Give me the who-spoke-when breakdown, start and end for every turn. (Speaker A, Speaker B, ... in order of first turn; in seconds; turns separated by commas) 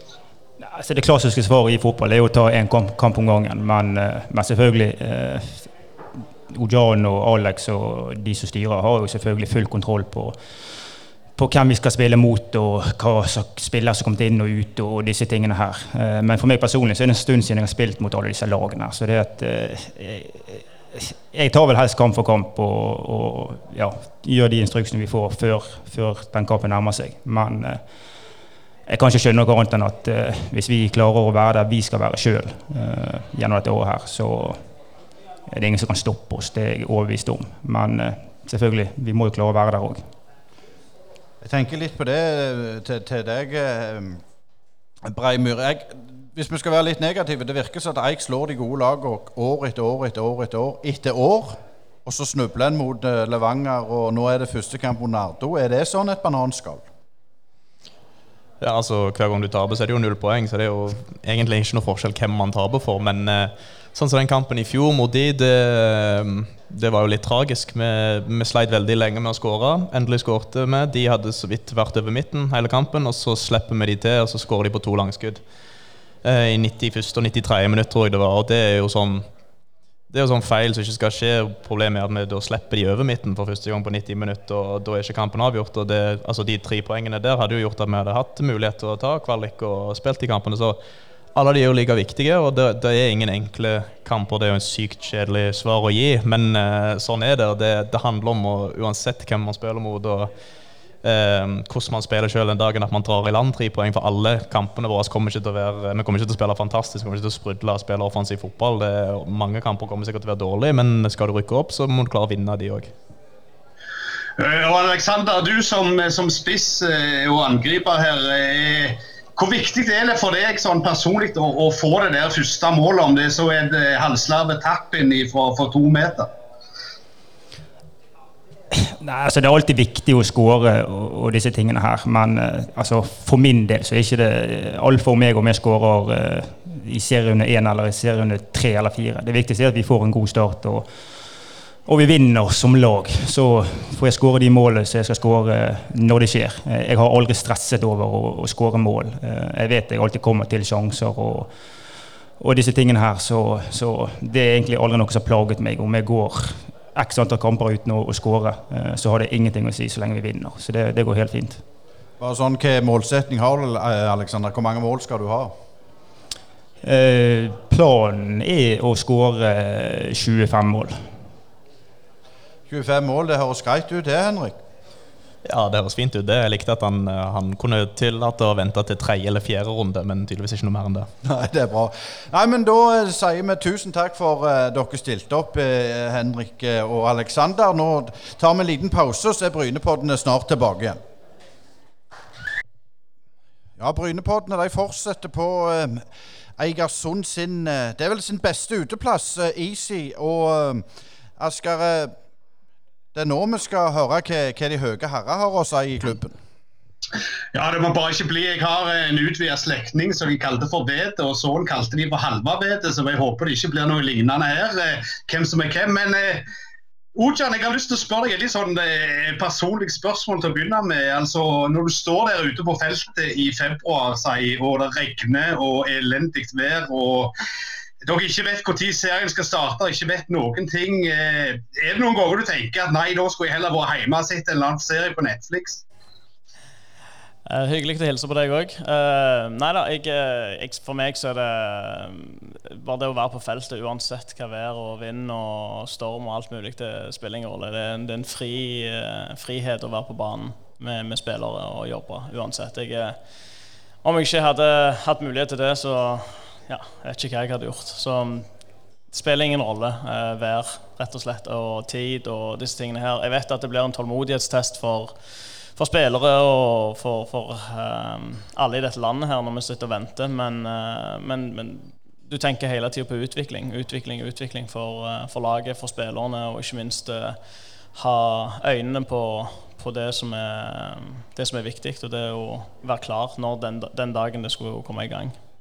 Speaker A: 0.6-5.7, Speaker A: 6.5-10.4, Speaker A: 11.4-27.8, Speaker A: 28.9-34.6, Speaker A: 35.5-40.0, Speaker B: 41.4-44.2, Speaker B: 45.0-56.9, Speaker C: 58.6-75.4, Speaker C: 76.2-79.2, Speaker C: 80.1-90.8, Speaker C: 91.3-100.3, Speaker C: 101.0-112.9, Speaker D: 114.4-126.3, Speaker A: 128.8-140.9, Speaker A: 141.8-151.5, Speaker A: 152.4-161.6, Speaker B: 162.2-165.5, Speaker A: 166.8-171.0, Speaker B: 172.7-174.6, Speaker C: 175.4-181.1, Speaker B: 181.2-191.0, Speaker B: 193.8-196.1, Speaker B: 196.6-202.2, Speaker B: 203.1-206.3, Speaker D: 207.5-216.4, Speaker D: 217.1-227.3, Speaker D: 228.0-235.8, Speaker E: 237.5-253.2, Speaker E: 254.0-258.5, Speaker E: 259.1-265.1, Speaker E: 265.8-277.4, Speaker E: 277.9-285.4